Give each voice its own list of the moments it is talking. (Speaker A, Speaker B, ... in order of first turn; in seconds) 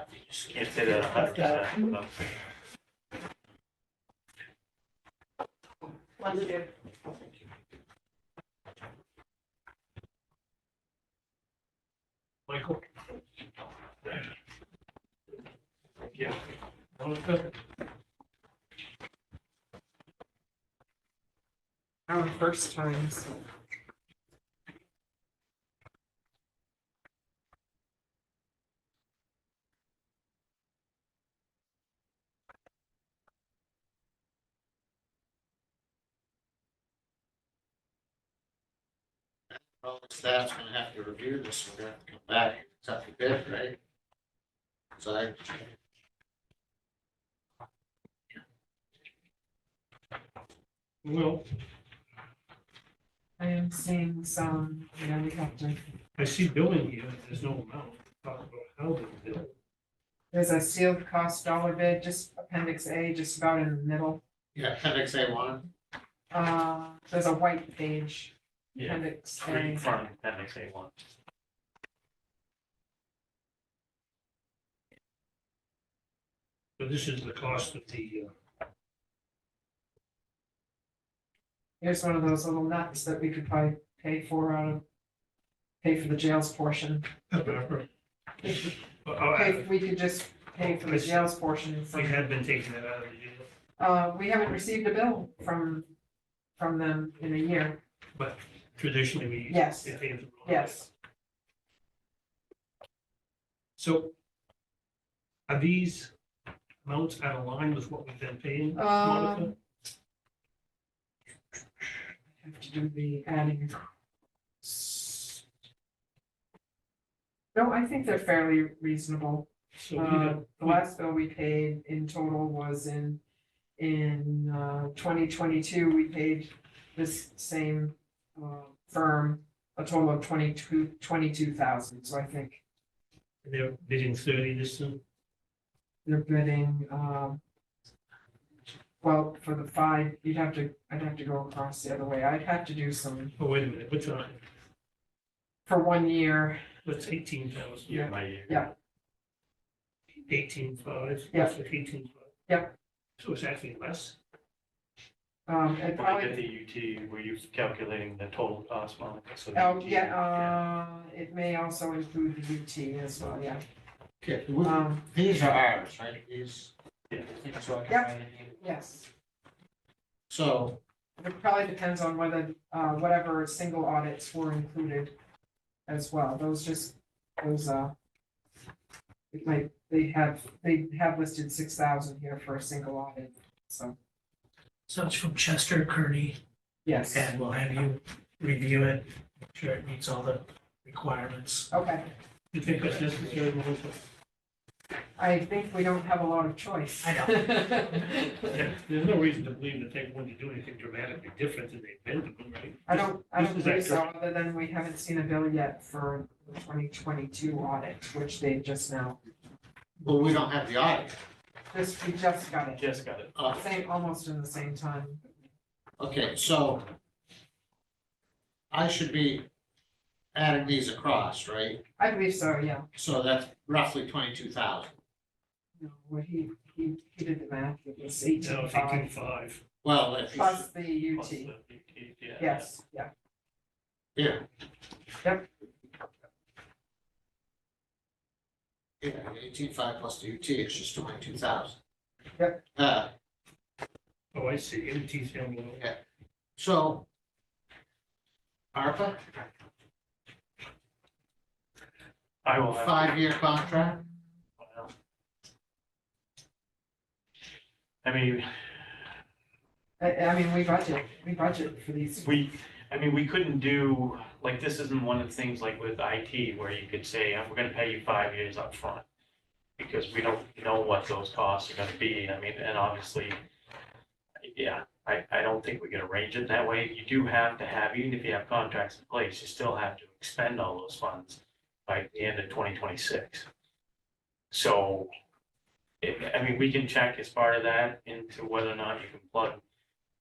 Speaker A: 0.4-2.1, 68.8-71.0, 147.9-148.7, 156.0-160.6, 212.8-213.3, 231.1-232.7, 252.4-253.2, 254.6-254.9, 258.0-259.1, 262.2-269.1, 269.8-273.4, 274.4-283.5, 284.5-285.1, 286.0-289.6
Speaker B: 0.9-1.5, 184.9-186.4, 187.1-191.7, 197.0-198.2
Speaker C: 12.5-12.8, 17.0-17.5, 51.0-51.5, 56.2-59.5, 76.8-78.3, 87.3-87.9, 89.0-89.7, 90.6-91.3, 91.9-93.5, 98.2-100.9, 103.8-104.1, 105.5-106.1, 106.8-109.5, 119.8-120.8, 133.4-135.0, 143.4-144.4, 146.8-148.1, 150.3-152.3, 153.2-154.2, 192.5-194.0, 198.5-204.1, 228.4-229.6, 244.3-245.8
Speaker D: 22.1-23.4, 53.4-55.8, 60.3-64.2, 66.3-69.9, 81.8-84.8, 85.8-87.1, 89.3-92.2, 93.8-95.9, 96.6-97.8, 99.5-100.9, 108.8-109.5, 112.4-113.8, 114.6-115.4, 117.5-123.2, 123.8-132.6, 136.1-137.4, 139.0-143.3, 145.7-146.6, 147.9-148.7, 151.3-151.6, 152.5-152.7, 155.5-156.4, 159.5-163.6, 164.6-165.1, 167.9-169.1, 171.2-175.2, 175.9-177.9, 179.3-184.0, 186.8-187.3, 191.7-192.1, 195.2-198.7, 202.9-209.2, 211.7-212.8, 213.5-215.2, 222.0-222.9, 225.8-229.1, 230.3-231.5, 232.4-233.1, 260.0-262.3
Speaker E: 39.5-43.8, 45.0-45.7, 64.5-65.6, 164.2-166.7, 167.3-168.5, 170.3-170.8, 210.0-211.2, 213.3-213.7, 216.0-216.9, 218.7-219.5, 220.3-221.8, 222.9-225.0, 229.8-230.7, 234.2-234.4, 239.0-241.8, 242.8-243.1, 246.6-247.1, 248.7-249.2, 252.7-254.0